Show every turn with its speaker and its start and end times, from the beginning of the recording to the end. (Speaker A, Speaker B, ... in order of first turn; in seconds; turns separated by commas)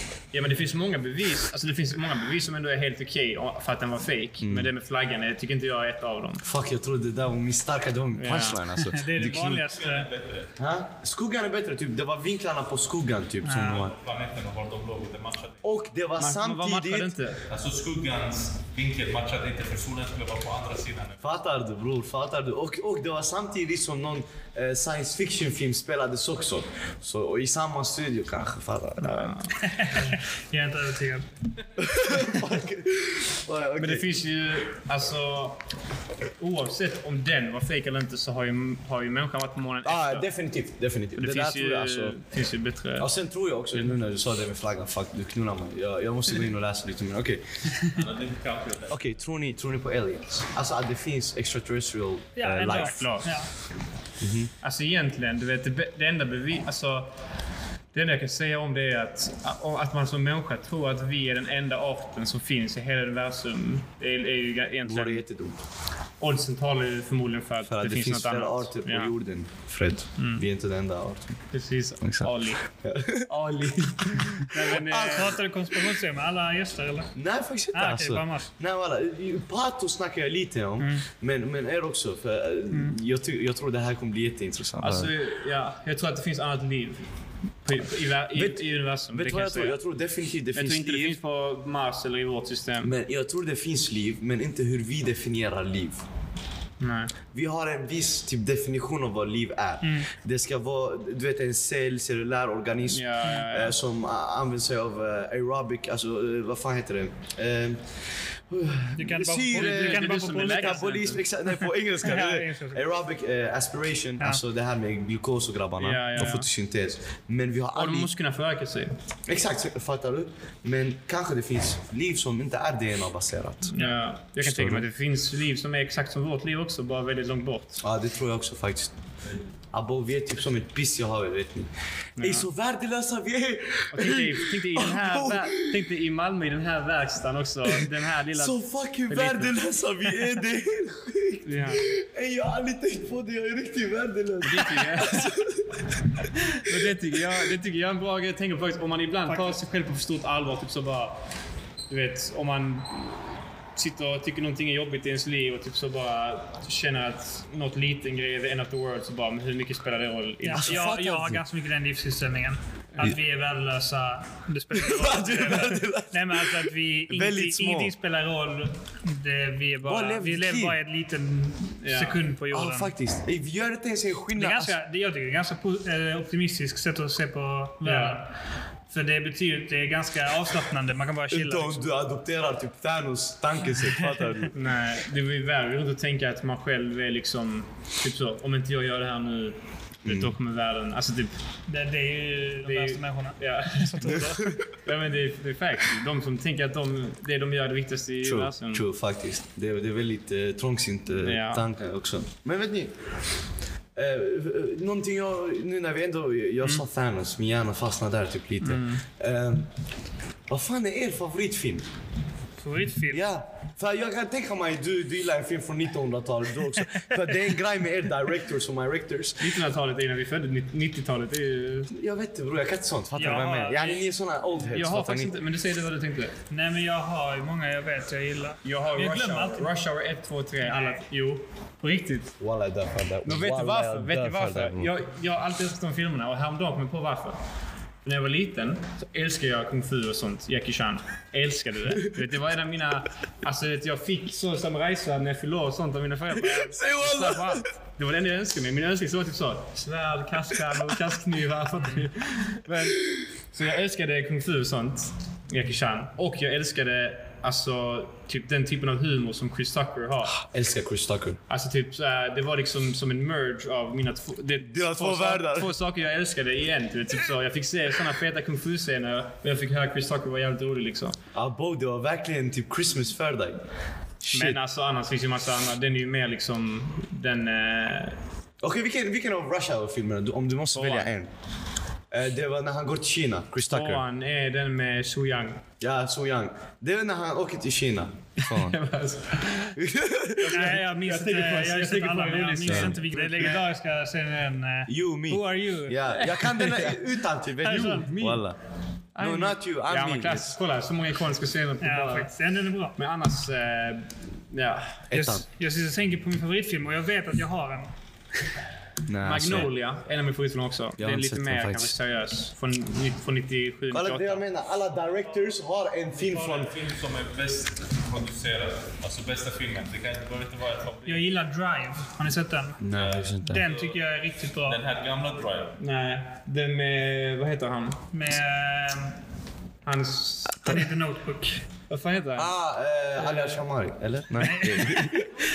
Speaker A: 0.3-6.4, Speaker B: 4.4-4.7, Speaker B: 6.4-9.6, Speaker A: 8.1-8.6, Speaker C: 8.7-10.1, Speaker D: 9.2-10.5, Speaker B: 10.6-13.9, Speaker C: 13.4-13.8, Speaker D: 13.6-15.6, Speaker B: 15.6-17.1, Speaker A: 16.2-17.4, Speaker D: 17.5-21.3, Speaker B: 21.2-29.4, Speaker A: 29.0-29.6, Speaker C: 29.6-31.3, Speaker B: 31.8-34.2, Speaker A: 33.8-35.6, Speaker A: 36.4-40.3, Speaker B: 39.8-42.2, Speaker A: 41.2-43.1, Speaker B: 43.0-47.8, Speaker D: 47.9-49.0, Speaker B: 48.9-53.2, Speaker C: 52.4-53.5, Speaker A: 52.7-53.3, Speaker B: 54.2-54.5, Speaker A: 54.6-57.1, Speaker A: 57.9-65.2, Speaker B: 64.8-65.6, Speaker A: 66.2-69.1, Speaker B: 67.7-71.4, Speaker A: 70.2-70.4, Speaker A: 71.5-72.6, Speaker B: 72.0-75.9, Speaker A: 74.4-75.4, Speaker C: 74.5-77.1, Speaker B: 77.1-85.1, Speaker C: 77.7-78.5, Speaker C: 80.8-81.0, Speaker A: 84.8-87.1, Speaker A: 87.6-89.8, Speaker B: 88.3-91.2, Speaker A: 90.5-92.9, Speaker B: 92.8-96.0, Speaker A: 96.8-97.1, Speaker B: 97.3-118.1, Speaker C: 99.8-100.1, Speaker A: 102.9-103.8, Speaker C: 109.0-110.9, Speaker A: 109.5-111.2, Speaker C: 111.6-112.8, Speaker A: 115.8-116.5, Speaker A: 117.7-118.9, Speaker B: 119.2-123.7, Speaker A: 123.7-127.8, Speaker B: 124.4-124.8, Speaker B: 127.8-128.9, Speaker B: 129.7-135.8, Speaker A: 132.2-132.5, Speaker A: 133.9-139.6, Speaker B: 137.7-145.9, Speaker A: 141.4-141.9, Speaker A: 144.4-145.4, Speaker A: 146.5-151.2, Speaker C: 149.3-149.6, Speaker A: 151.9-160.9, Speaker C: 160.4-172.9, Speaker B: 160.5-161.4, Speaker B: 164.7-167.9, Speaker B: 169.8-170.8, Speaker A: 171.8-172.2, Speaker B: 172.5-174.8, Speaker C: 174.3-178.3, Speaker A: 177.8-178.2, Speaker C: 178.9-181.8, Speaker B: 181.3-184.5, Speaker A: 184.5-191.3, Speaker B: 190.0-190.3, Speaker C: 191.7-194.5, Speaker A: 192.6-198.8, Speaker B: 194.1-194.6, Speaker B: 198.2-203.1, Speaker A: 201.2-201.6, Speaker B: 203.9-209.7, Speaker A: 208.6-209.0, Speaker B: 210.5-211.9, Speaker C: 212.6-213.2, Speaker B: 213.1-219.5, Speaker A: 219.4-221.9, Speaker B: 221.9-225.3, Speaker C: 223.2-224.0, Speaker A: 224.7-226.3, Speaker C: 226.5-229.7, Speaker A: 228.6-232.3, Speaker C: 230.6-231.0, Speaker B: 232.4-234.9, Speaker A: 233.2-237.4, Speaker A: 238.0-260.4, Speaker B: 246.3-247.7, Speaker B: 260.3-261.4, Speaker A: 261.5-271.2, Speaker B: 264.6-265.7, Speaker B: 271.3-273.6, Speaker B: 274.2-274.6, Speaker A: 274.3-278.2, Speaker B: 278.6-281.3, Speaker A: 280.7-281.1, Speaker B: 282.1-284.0, Speaker A: 283.7-285.6, Speaker B: 285.8-288.8, Speaker A: 288.4-289.8, Speaker B: 289.7-290.7, Speaker A: 290.4-293.6, Speaker C: 290.5-296.0, Speaker B: 292.6-293.0, Speaker B: 294.9-298.6, Speaker A: 296.2-297.0, Speaker C: 297.6-298.3, Speaker A: 297.7-298.4, Speaker A: 299.1-302.3, Speaker B: 299.2-300.6, Speaker C: 301.8-303.0, Speaker A: 303.0-305.0, Speaker B: 305.1-305.4, Speaker C: 305.1-307.9, Speaker B: 309.1-309.7, Speaker A: 309.2-314.4, Speaker B: 311.0-311.9, Speaker B: 313.9-316.7, Speaker D: 316.2-321.2, Speaker C: 321.1-322.8, Speaker B: 322.8-323.6, Speaker D: 322.9-324.0, Speaker C: 323.4-324.8, Speaker D: 324.6-325.8, Speaker A: 325.8-328.0, Speaker C: 328.1-329.2, Speaker A: 329.8-330.8, Speaker C: 330.6-331.6, Speaker A: 331.9-332.5, Speaker B: 332.4-335.3, Speaker A: 333.2-333.6, Speaker C: 334.4-335.3